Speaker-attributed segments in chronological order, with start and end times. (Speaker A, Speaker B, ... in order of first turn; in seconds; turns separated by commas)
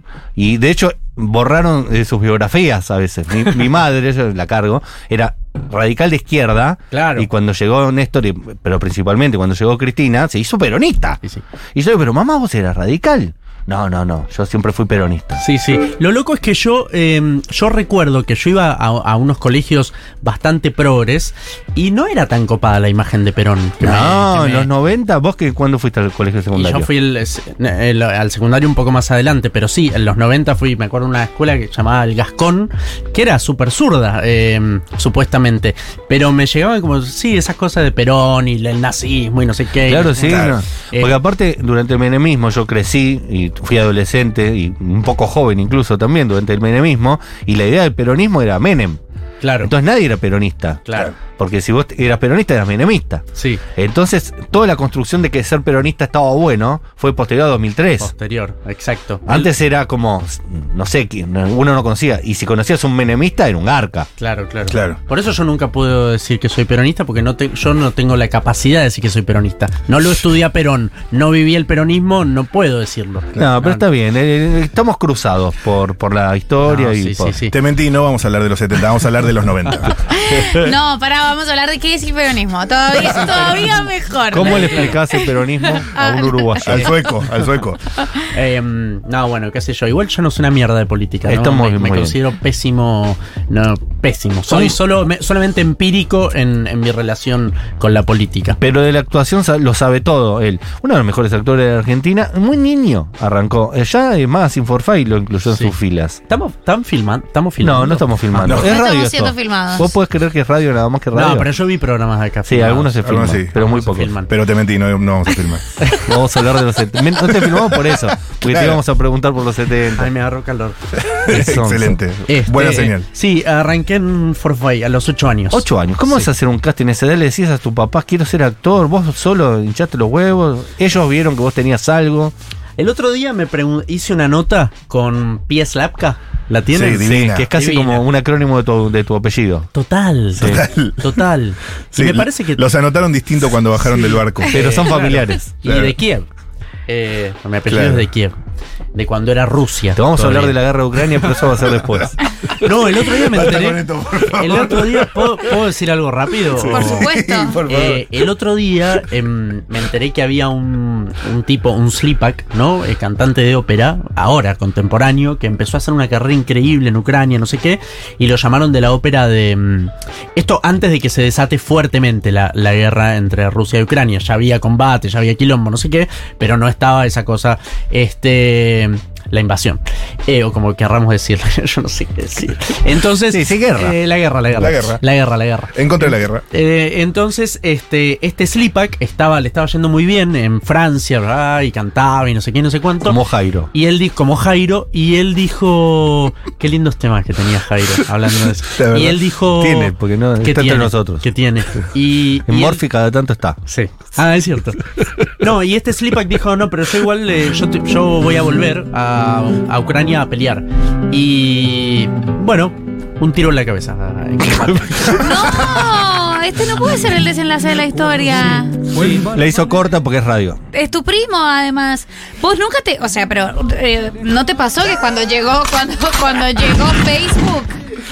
Speaker A: 0.3-11.2, Speaker B: 6.9-7.3, Speaker A: 11.7-15.4, Speaker B: 15.4-24.7, Speaker A: 23.8-26.9, Speaker B: 26.5-41.2, Speaker A: 39.8-49.0, Speaker C: 40.2-40.6, Speaker B: 49.4-49.7, Speaker A: 49.6-58.1, Speaker B: 50.9-51.1, Speaker B: 53.3-53.6, Speaker B: 58.0-59.5, Speaker A: 59.2-64.1, Speaker B: 64.2-73.8, Speaker C: 64.7-65.0, Speaker A: 73.4-77.4, Speaker B: 76.6-77.5, Speaker C: 77.5-80.6, Speaker D: 80.1-86.9, Speaker A: 84.3-87.0, Speaker B: 84.4-85.0, Speaker C: 86.6-87.8, Speaker B: 88.3-98.6, Speaker A: 91.3-92.2, Speaker A: 94.5-94.8, Speaker A: 98.6-106.2, Speaker B: 105.5-105.8, Speaker B: 106.3-108.6, Speaker A: 107.6-111.5, Speaker C: 108.4-108.7, Speaker D: 108.5-109.9, Speaker B: 111.1-113.0, Speaker A: 112.5-114.1, Speaker C: 113.0-113.6, Speaker B: 113.5-114.3, Speaker C: 114.3-115.7, Speaker A: 116.0-120.1, Speaker C: 117.4-118.8, Speaker B: 119.9-120.8, Speaker C: 121.0-123.1, Speaker A: 121.3-122.0, Speaker B: 122.3-126.3, Speaker A: 125.5-132.3, Speaker B: 132.8-138.1, Speaker C: 136.7-137.5, Speaker A: 137.0-139.7, Speaker B: 139.7-142.7, Speaker A: 140.3-140.6, Speaker C: 140.4-141.2, Speaker C: 141.9-145.0, Speaker B: 143.9-146.3, Speaker A: 144.5-145.5, Speaker C: 145.6-145.9, Speaker B: 146.9-148.4, Speaker C: 147.7-148.0, Speaker B: 148.9-150.6, Speaker A: 149.9-152.2, Speaker B: 152.6-157.1, Speaker C: 152.6-155.4, Speaker C: 156.6-158.2, Speaker D: 156.6-157.6, Speaker B: 157.6-193.2, Speaker A: 183.3-184.0, Speaker C: 184.6-185.0, Speaker C: 185.7-186.4, Speaker A: 193.1-193.7, Speaker B: 193.7-202.8, Speaker C: 198.7-199.2, Speaker A: 199.5-201.3, Speaker A: 202.4-203.6, Speaker B: 203.7-215.7, Speaker D: 215.2-218.8, Speaker A: 219.0-220.6, Speaker D: 220.7-227.8